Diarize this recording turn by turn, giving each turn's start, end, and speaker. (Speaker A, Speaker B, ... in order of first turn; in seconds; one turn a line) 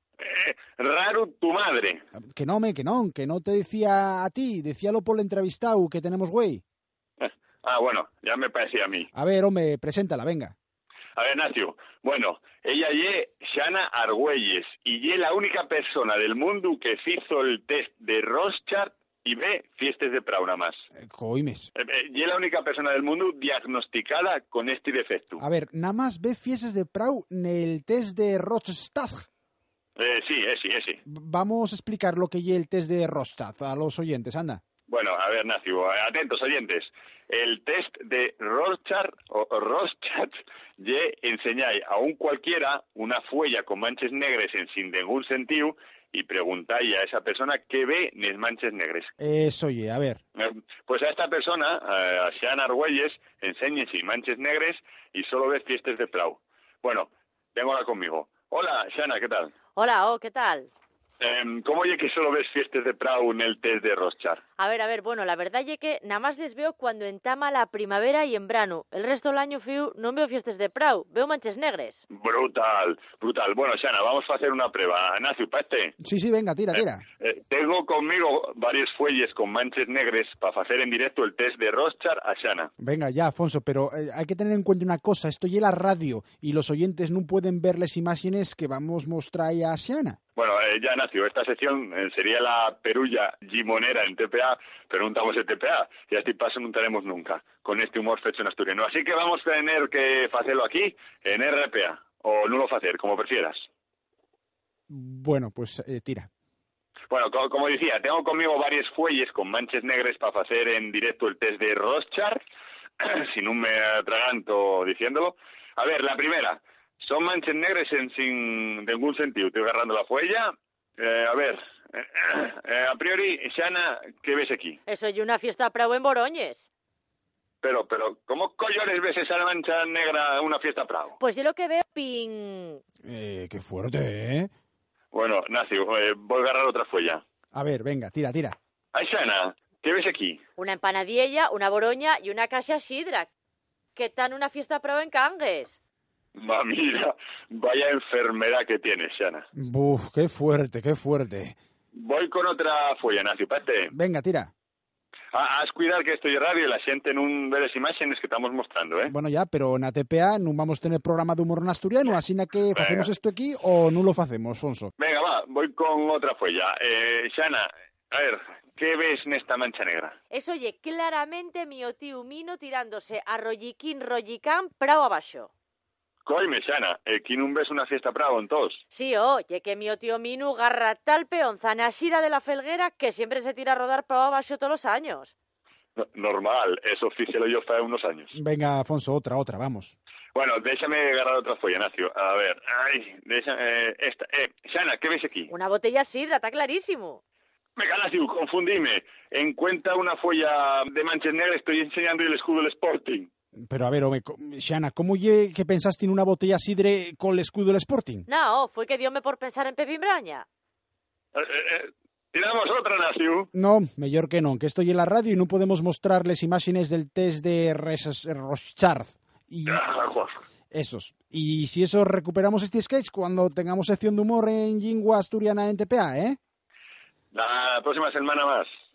Speaker A: 0.2-2.0
Speaker B: 2.3-6.6
Speaker A: 7.2-9.1
Speaker B: 9.1-10.6
Speaker A: 11.2-20.8
Speaker B: 21.0-21.7
Speaker A: 21.8-25.4
Speaker B: 25.4-29.3
Speaker A: 30.0-31.0
Speaker B: 31.1-34.6
Speaker A: 34.9-49.1
Speaker B: 49.2-50.2
Speaker A: 50.4-59.5
Speaker C: 59.8-60.7
Speaker A: 61.2-64.4
Speaker C: 64.6-72.0
Speaker A: 72.1-76.0
Speaker B: 76.0-77.0
Speaker A: 76.7-82.7
Speaker B: 82.8-90.2
Speaker A: 90.4-103.7
Speaker B: 104.9-106.3
Speaker A: 107.1-112.4
Speaker A: 113.0-124.8
Speaker C: 124.9-126.7
Speaker A: 127.6-131.2
Speaker C: 131.2-132.8
Speaker B: 133.1-134.5
Speaker A: 135.1-137.2
Speaker B: 137.5-138.6
Speaker A: 138.9-140.4
Speaker C: 140.6-143.3
Speaker C: 144.0-145.8
Speaker A: 146.3-149.5
Speaker B: 149.6-151.6
Speaker A: 151.9-153.9
Speaker B: 153.9-154.5
Speaker A: 155.3-159.1
Speaker B: 159.1-164.9
Speaker A: 162.7-163.1
Speaker A: 165.0-170.2
Speaker C: 170.3-175.5
Speaker A: 176.2-178.8
Speaker C: 178.9-185.3
Speaker A: 186.0-188.3
Speaker B: 188.3-190.0
Speaker A: 190.3-195.5
Speaker C: 195.5-197.2
Speaker A: 197.8-203.3
Speaker B: 203.7-208.3
Speaker C: 208.3-210.5
Speaker A: 211.3-213.5
Speaker B: 213.5-219.9
Speaker A: 219.7-220.4
Speaker B: 220.7-226.4
Speaker A: 227.3-228.7